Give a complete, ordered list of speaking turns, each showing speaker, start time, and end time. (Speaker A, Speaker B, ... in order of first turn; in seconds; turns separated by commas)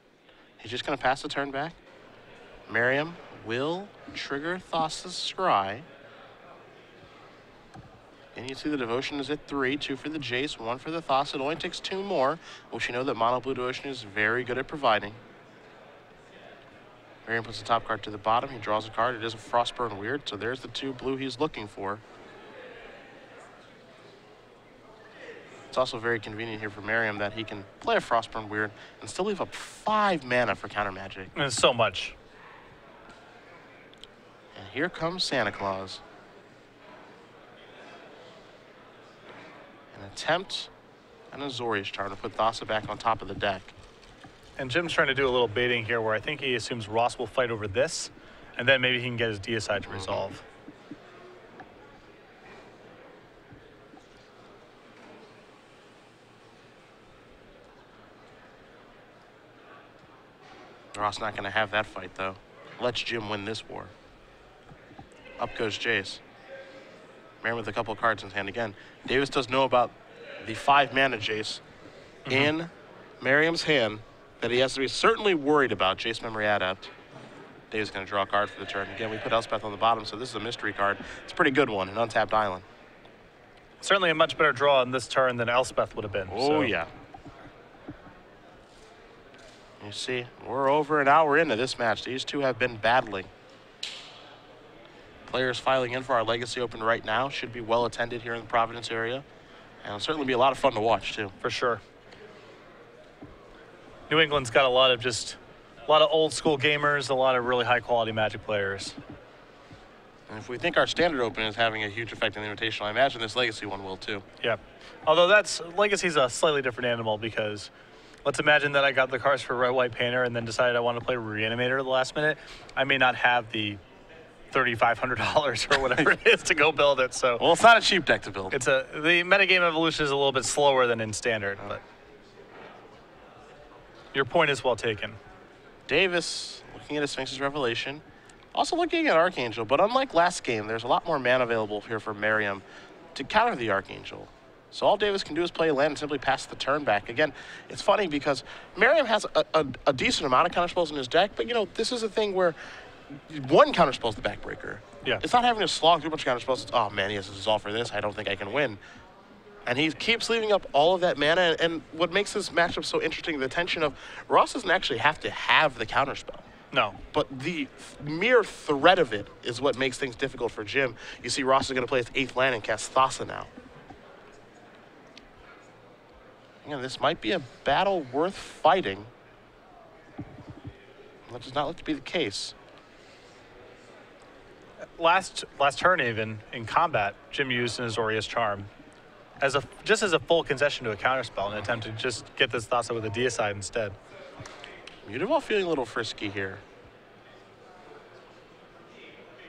Speaker A: 0.6-1.8, Speaker A: 2.7-5.9, Speaker A: 8.3-15.2, Speaker A: 17.3-22.0, Speaker A: 25.7-31.3, Speaker B: 31.4-32.2, Speaker A: 34.5-36.0, Speaker A: 39.9-40.7, Speaker A: 41.3-43.7, Speaker B: 44.6-50.4, Speaker A: 49.9-50.2, Speaker A: 60.9-63.9, Speaker A: 65.4-66.2, Speaker A: 67.4-71.6, Speaker A: 72.3-76.9, Speaker A: 77.7-82.7, Speaker B: 83.8-86.7, Speaker A: 86.3-86.9, Speaker A: 89.8-93.3, Speaker A: 95.3-99.2, Speaker A: 99.8-101.4, Speaker B: 101.4-101.8, Speaker B: 104.1-109.0, Speaker A: 110.3-114.2, Speaker B: 114.4-117.7, Speaker B: 118.2-123.8, Speaker B: 124.5-127.4, Speaker A: 127.4-128.6, Speaker B: 128.5-131.8, Speaker B: 134.1-135.2, Speaker A: 135.9-142.6, Speaker A: 143.2-152.6, Speaker A: 153.1-158.8, Speaker A: 159.7-166.4, Speaker B: 166.7-167.0, Speaker A: 167.1-173.5, Speaker A: 176.6-179.1, Speaker A: 181.3-182.6, Speaker B: 185.0-188.7, Speaker B: 189.4-193.9, Speaker A: 195.1-196.6